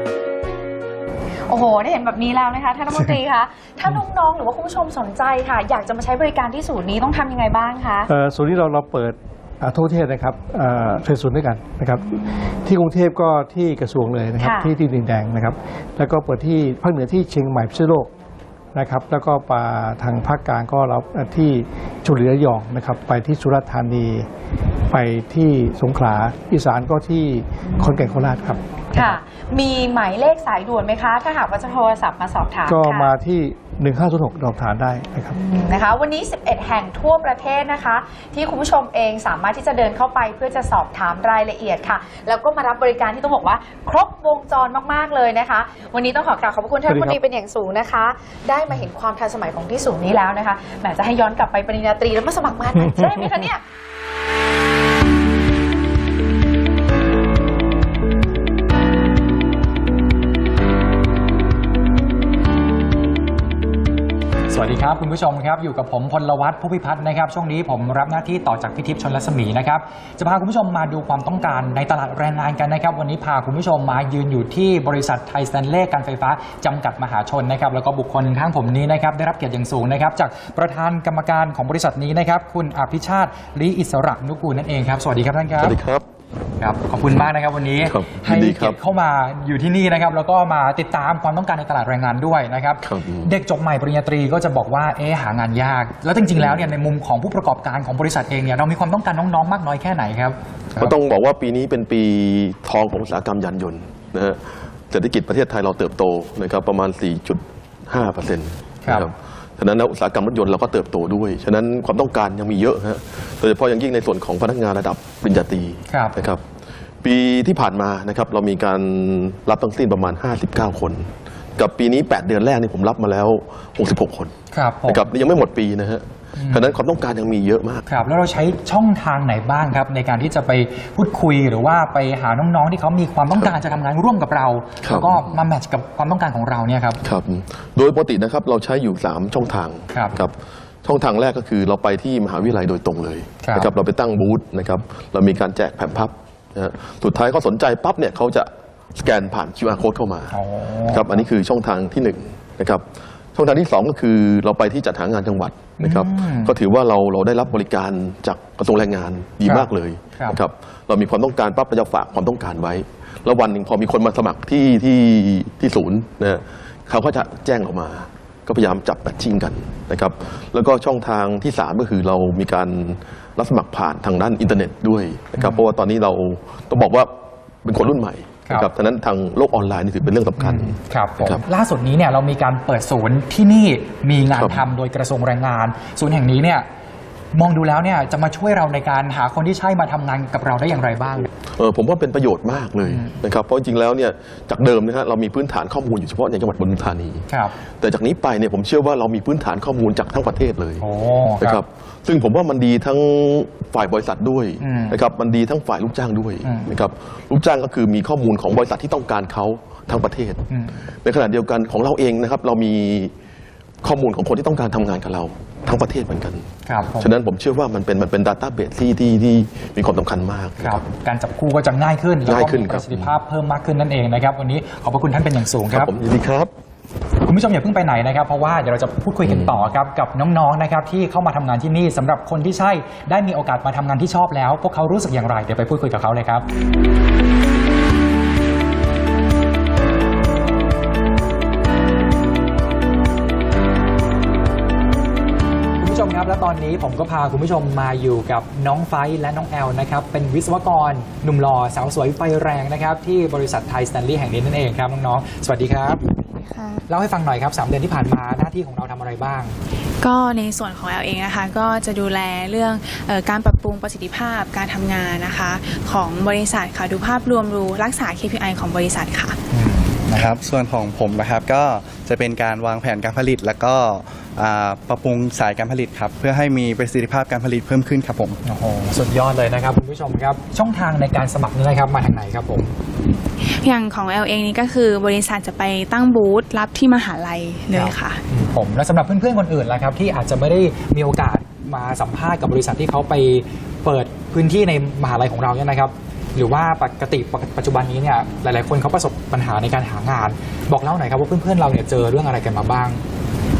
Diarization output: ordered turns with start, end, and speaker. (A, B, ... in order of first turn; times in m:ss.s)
0:01.5-0:08.1 A
0:08.1-0:18.1 B
0:14.4-0:14.7 A
0:18.7-0:24.3 B
0:24.9-0:29.2 B
0:28.9-0:33.1 A
0:32.6-0:35.4 B
0:35.4-0:53.6 A
0:46.9-0:47.2 B
0:52.8-0:53.2 B
1:04.5-1:25.8 C
1:25.6-1:26.0 D
1:26.6-1:41.0 C
1:27.8-1:28.8 D
1:32.8-1:33.3 D
1:40.8-1:56.4 D
1:55.9-1:56.1 C
1:57.0-2:04.3 D
2:04.5-2:05.0 C
2:04.8-2:07.8 D
2:06.4-2:06.8 C
2:07.9-2:17.0 C
2:14.8-2:15.4 D
2:17.0-2:20.3 D
2:19.9-2:20.2 C
2:20.8-2:32.8 D
2:23.4-2:23.7 C
2:30.3-2:31.2 C
2:33.3-2:57.1 D
2:35.8-2:36.6 C
2:39.4-2:40.4 C
2:55.4-2:55.6 C
2:57.6-3:01.4 D
3:00.0-3:06.6 C
3:04.3-3:04.7 D
3:07.3-3:11.3 C
3:11.5-3:17.2 D
3:12.8-3:13.1 C
3:17.3-3:17.5 C
3:17.8-3:20.8 D
3:20.8-3:21.6 C
3:21.4-3:30.4 D
3:24.6-3:25.0 C
3:26.4-3:26.7 C
3:30.5-3:30.7 C
3:31.0-3:33.1 D
3:33.8-3:36.4 D
3:36.6-3:37.1 C
3:37.0-3:40.8 D
3:40.6-3:45.9 C
3:42.2-3:43.2 D
3:45.7-3:46.5 D
3:47.2-3:56.4 C
3:49.2-3:49.6 D
4:05.8-4:16.0 C
4:16.3-4:16.8 E
4:16.9-4:19.5 C
4:20.0-4:29.4 E
4:29.5-4:30.2 C
4:30.2-4:38.4 F
4:38.4-4:42.7 C
4:43.1-4:48.2 E
4:47.7-5:03.0 C